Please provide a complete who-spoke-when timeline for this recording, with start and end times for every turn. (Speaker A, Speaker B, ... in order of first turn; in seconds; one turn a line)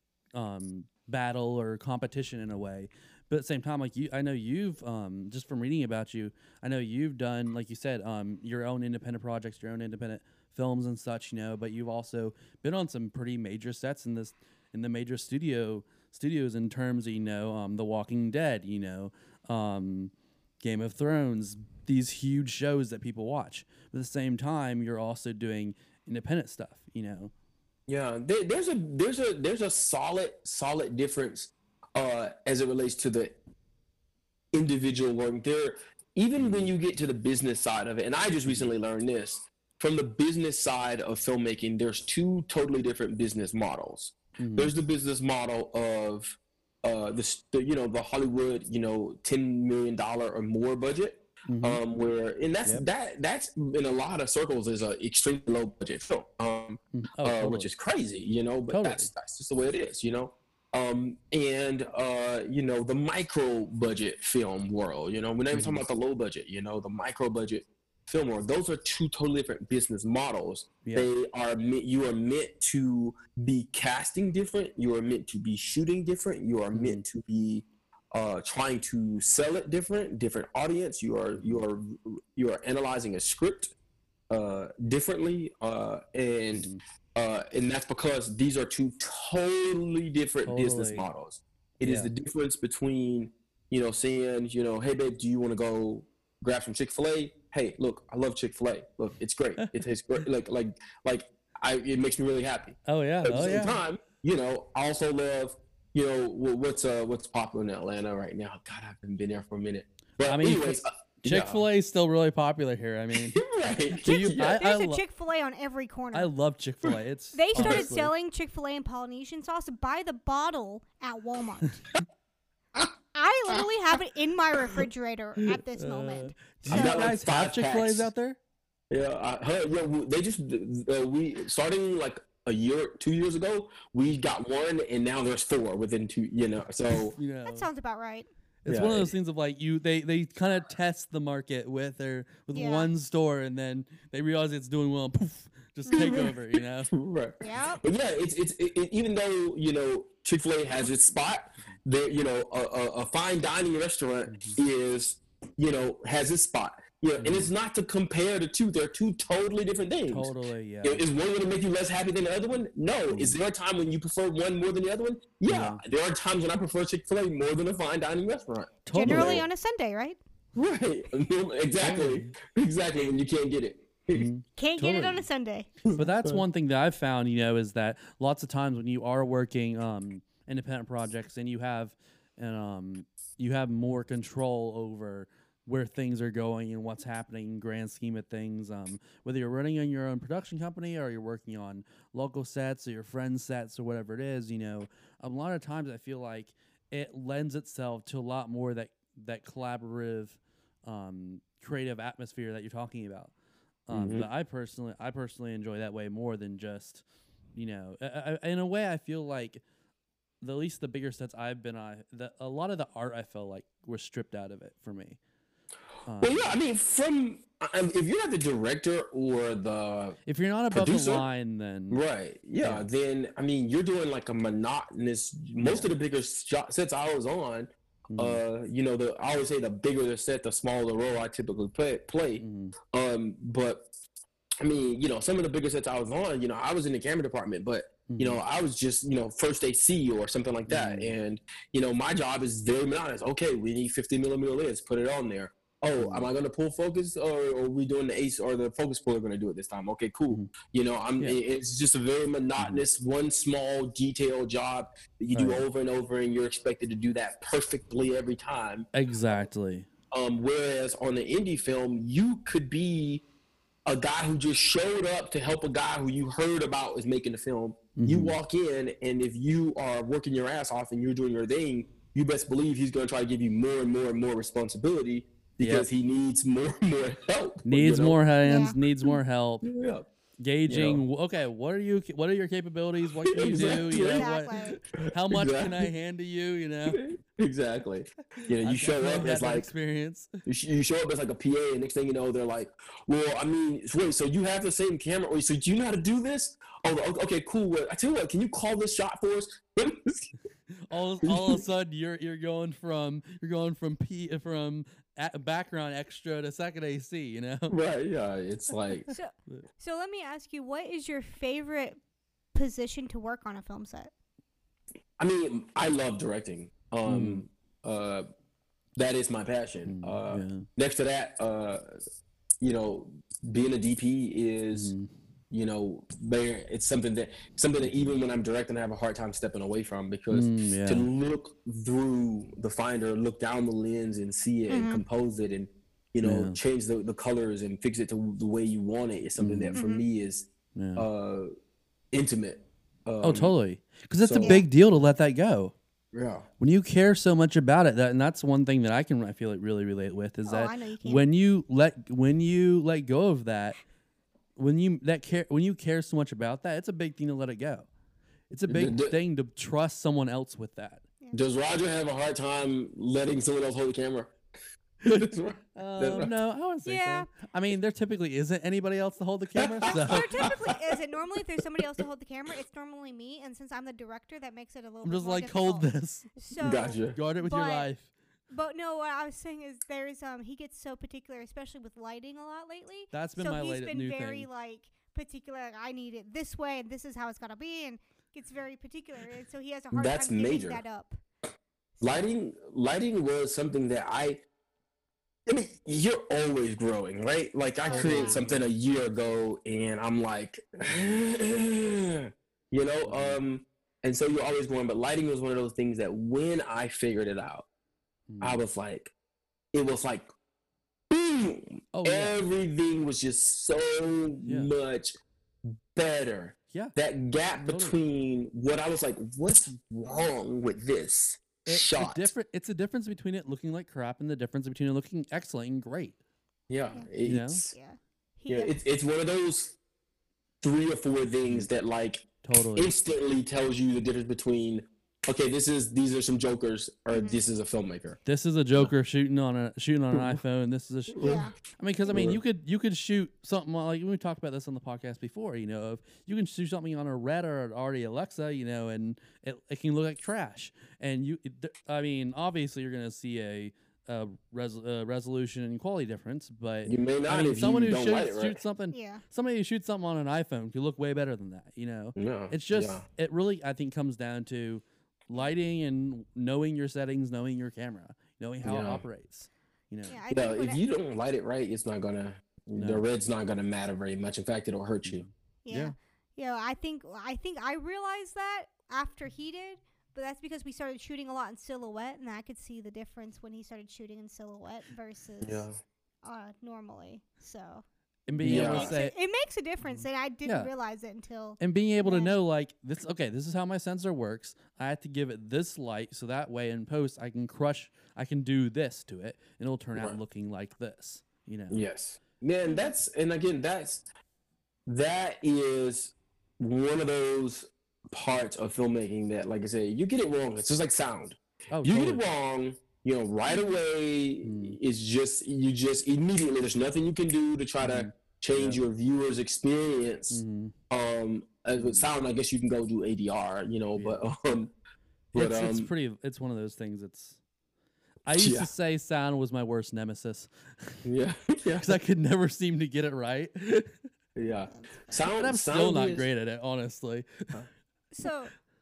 Speaker A: 0.3-27.3
Speaker B: 27.9-33.3
Speaker B: 34.5-83.7
Speaker A: 36.4-36.7
Speaker A: 44.4-44.7
Speaker A: 51.5-51.8
Speaker A: 56.9-57.7
Speaker A: 58.7-59.1
Speaker A: 65.5-65.8
Speaker A: 70.8-71.1
Speaker A: 76.7-77.0
Speaker A: 81.3-81.6
Speaker B: 84.3-111.6
Speaker A: 86.5-86.8
Speaker A: 90.5-91.0
Speaker A: 91.8-92.1
Speaker A: 102.9-103.8
Speaker A: 110.2-113.4
Speaker B: 113.1-114.6
Speaker A: 114.0-115.0
Speaker C: 114.2-116.3
Speaker A: 116.1-118.1
Speaker C: 117.3-121.8
Speaker B: 117.5-117.9
Speaker C: 123.1-127.0
Speaker A: 125.4-128.4
Speaker B: 126.7-128.1
Speaker B: 128.9-137.2
Speaker A: 137.2-137.7
Speaker C: 137.4-138.3
Speaker A: 138.6-146.9
Speaker B: 138.7-139.1
Speaker C: 142.5-142.9
Speaker B: 145.9-146.3
Speaker B: 146.9-160.3
Speaker C: 147.4-147.8
Speaker A: 154.3-154.6
Speaker A: 157.2-157.5
Speaker A: 160.1-161.1
Speaker B: 160.8-169.4
Speaker A: 163.1-163.3
Speaker A: 165.5-165.8
Speaker A: 168.8-169.4
Speaker C: 168.9-170.2
Speaker B: 170.5-174.3
Speaker A: 171.8-172.3
Speaker A: 174.1-175.2
Speaker C: 174.6-175.7
Speaker B: 175.8-176.4
Speaker A: 175.9-203.3
Speaker A: 203.9-209.6
Speaker B: 203.9-204.3
Speaker A: 210.4-215.2
Speaker A: 216.0-216.5
Speaker B: 216.2-220.2
Speaker A: 220.2-222.0
Speaker B: 220.7-221.2
Speaker B: 221.9-233.9
Speaker A: 222.6-222.9
Speaker A: 225.6-225.9
Speaker A: 228.1-228.4
Speaker A: 232.4-232.7
Speaker B: 234.6-258.9
Speaker A: 238.1-238.4
Speaker A: 240.7-241.2
Speaker A: 246.0-246.3
Speaker A: 252.6-252.8
Speaker A: 255.3-255.6
Speaker A: 258.9-259.9
Speaker B: 260.1-263.2
Speaker B: 263.9-278.2
Speaker A: 267.9-268.4
Speaker A: 275.6-275.9
Speaker A: 277.6-279.6
Speaker C: 278.4-278.7
Speaker B: 279.6-280.1
Speaker A: 280.4-287.0
Speaker B: 280.7-281.0
Speaker B: 283.2-284.3
Speaker C: 283.5-284.8
Speaker B: 285.3-285.9
Speaker B: 286.9-289.7
Speaker A: 288.4-290.3
Speaker B: 290.4-300.3
Speaker A: 300.7-307.7
Speaker B: 301.2-301.6
Speaker B: 307.7-309.1
Speaker C: 309.1-312.0
Speaker C: 312.5-314.1
Speaker B: 315.2-318.2
Speaker A: 317.0-317.4
Speaker B: 318.9-321.9
Speaker A: 319.9-320.6
Speaker B: 322.6-324.9
Speaker A: 324.7-325.1
Speaker B: 325.5-341.5
Speaker A: 327.8-328.1
Speaker A: 330.3-331.1
Speaker C: 334.7-335.0
Speaker A: 336.2-336.6
Speaker A: 339.4-339.8
Speaker C: 339.8-340.0
Speaker A: 340.8-341.1
Speaker B: 342.1-343.5
Speaker A: 343.2-345.7
Speaker B: 344.2-344.6
Speaker C: 344.4-344.7
Speaker B: 346.1-346.4
Speaker A: 346.6-353.8
Speaker C: 350.4-351.2
Speaker A: 354.6-357.9
Speaker A: 358.5-361.0
Speaker B: 358.7-359.1
Speaker B: 361.3-364.3
Speaker B: 365.0-366.3
Speaker A: 365.0-370.5
Speaker C: 366.8-367.3
Speaker B: 369.6-370.8
Speaker C: 369.9-377.9
Speaker A: 375.0-376.4
Speaker B: 376.6-377.2
Speaker A: 377.1-378.1
Speaker C: 378.5-391.2
Speaker A: 383.1-384.5
Speaker B: 389.9-390.8
Speaker B: 392.0-394.4
Speaker B: 395.4-407.7
Speaker C: 397.9-398.4
Speaker A: 397.9-398.6
Speaker A: 403.0-403.4
Speaker A: 408.3-408.6
Speaker B: 408.4-409.1
Speaker B: 409.7-410.3
Speaker B: 411.1-415.1
Speaker A: 411.9-412.4
Speaker A: 414.4-414.7
Speaker B: 415.9-422.3
Speaker A: 417.7-418.0
Speaker A: 421.6-426.2
Speaker B: 426.7-427.7
Speaker A: 427.2-427.6
Speaker C: 427.7-428.8
Speaker B: 428.5-429.8
Speaker B: 430.6-438.2
Speaker A: 432.4-432.9
Speaker C: 437.1-437.4
Speaker A: 438.2-441.2
Speaker B: 441.1-441.4
Speaker C: 441.2-441.5
Speaker A: 441.7-470.2
Speaker B: 442.1-442.4
Speaker B: 456.8-458.6
Speaker C: 458.9-459.2
Speaker B: 462.1-463.0
Speaker B: 468.6-469.0
Speaker C: 470.1-470.8
Speaker B: 470.3-475.2
Speaker A: 472.8-473.0
Speaker A: 475.0-475.9
Speaker C: 475.6-485.7
Speaker B: 485.4-485.8
Speaker C: 486.2-487.8
Speaker A: 488.3-489.1
Speaker C: 488.4-492.4
Speaker B: 488.4-488.9
Speaker A: 489.8-490.7
Speaker A: 491.6-501.8
Speaker B: 501.7-504.0
Speaker C: 502.6-502.9
Speaker B: 504.9-524.7
Speaker A: 511.7-512.2
Speaker C: 513.4-513.8
Speaker A: 514.4-514.8
Speaker A: 517.8-518.9
Speaker A: 520.3-520.7
Speaker A: 521.7-522.1
Speaker A: 523.9-524.2
Speaker B: 525.3-525.9
Speaker A: 525.3-527.4
Speaker A: 528.2-531.0
Speaker B: 528.4-528.7
Speaker B: 531.0-532.0
Speaker A: 531.8-533.9
Speaker B: 534.4-536.3
Speaker C: 534.7-535.3
Speaker A: 535.4-537.5
Speaker C: 538.1-538.5